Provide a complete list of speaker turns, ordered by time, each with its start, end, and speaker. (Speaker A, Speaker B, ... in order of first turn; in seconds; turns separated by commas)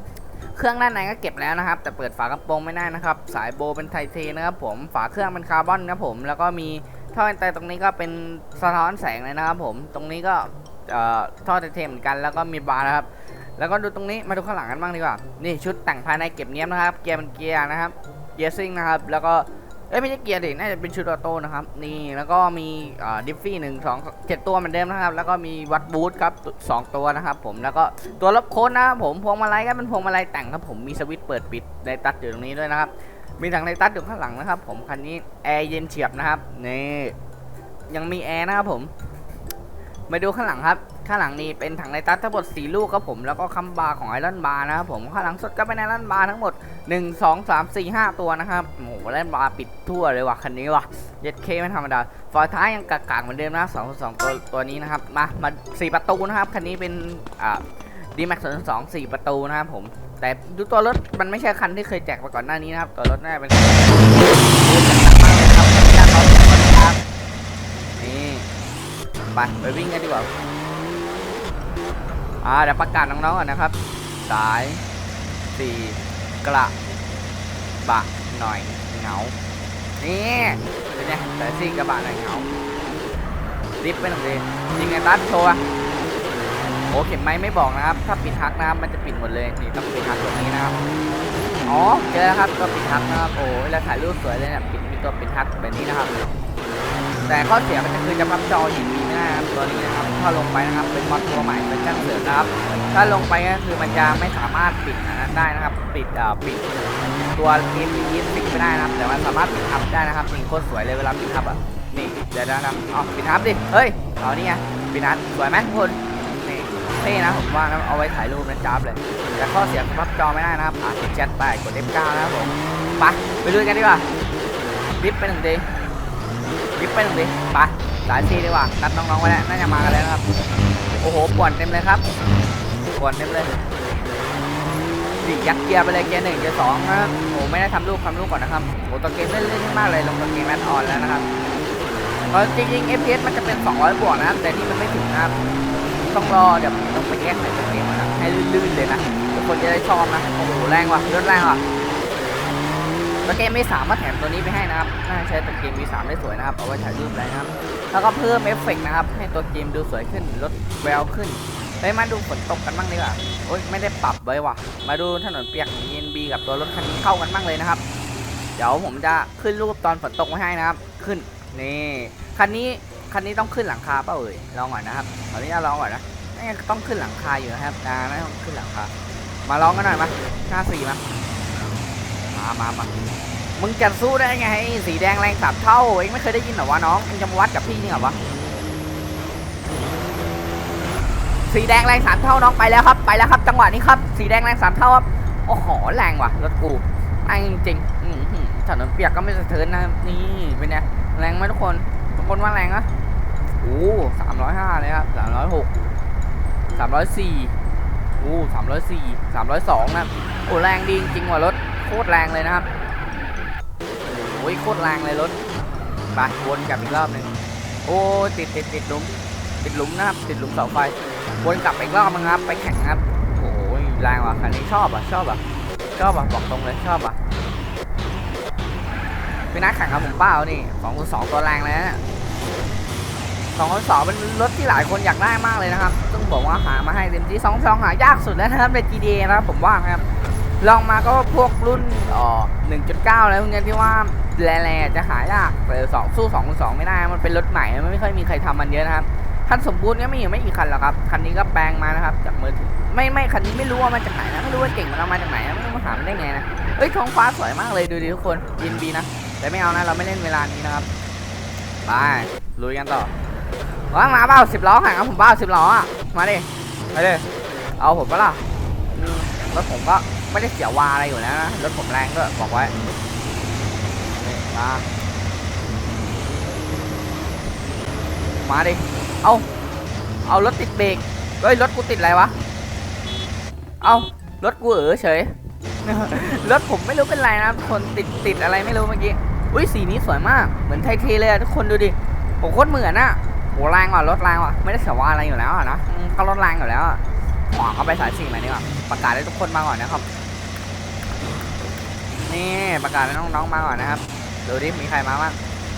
Speaker A: 0.5-37.1, Speaker A: 37.9-38.9, Speaker A: 40.1-67.0, Speaker A: 68.0-68.5, Speaker A: 69.3-70.3, Speaker A: 72.4-74.8, Speaker A: 75.5-76.7, Speaker A: 77.8-79.3, Speaker A: 80.0-82.5, Speaker A: 83.8-85.6, Speaker A: 86.9-90.8, Speaker A: 91.7-96.1, Speaker A: 97.2-124.0, Speaker A: 125.0-125.7, Speaker A: 126.8-130.2, Speaker A: 131.0-132.0, Speaker A: 132.9-133.5, Speaker A: 135.2-141.2, Speaker A: 142.3-151.6, Speaker A: 153.2-167.8, Speaker A: 168.6-178.9, Speaker A: 179.4-181.0, Speaker A: 182.3-182.9, Speaker A: 183.6-188.2, Speaker A: 191.4-202.9, Speaker A: 203.6-205.7, Speaker A: 206.7-207.5, Speaker A: 208.2-212.7, Speaker A: 214.0-215.3, Speaker A: 216.1-217.3, Speaker A: 217.8-225.4, Speaker A: 225.9-227.2, Speaker A: 229.5-232.0, Speaker A: 233.5-240.0, Speaker A: 240.6-260.9, Speaker A: 261.8-263.1, Speaker A: 263.9-267.2, Speaker A: 267.8-272.7, Speaker A: 274.1-274.8, Speaker A: 278.4-279.4, Speaker A: 280.2-282.3, Speaker A: 283.8-300.0, Speaker A: 302.3-305.4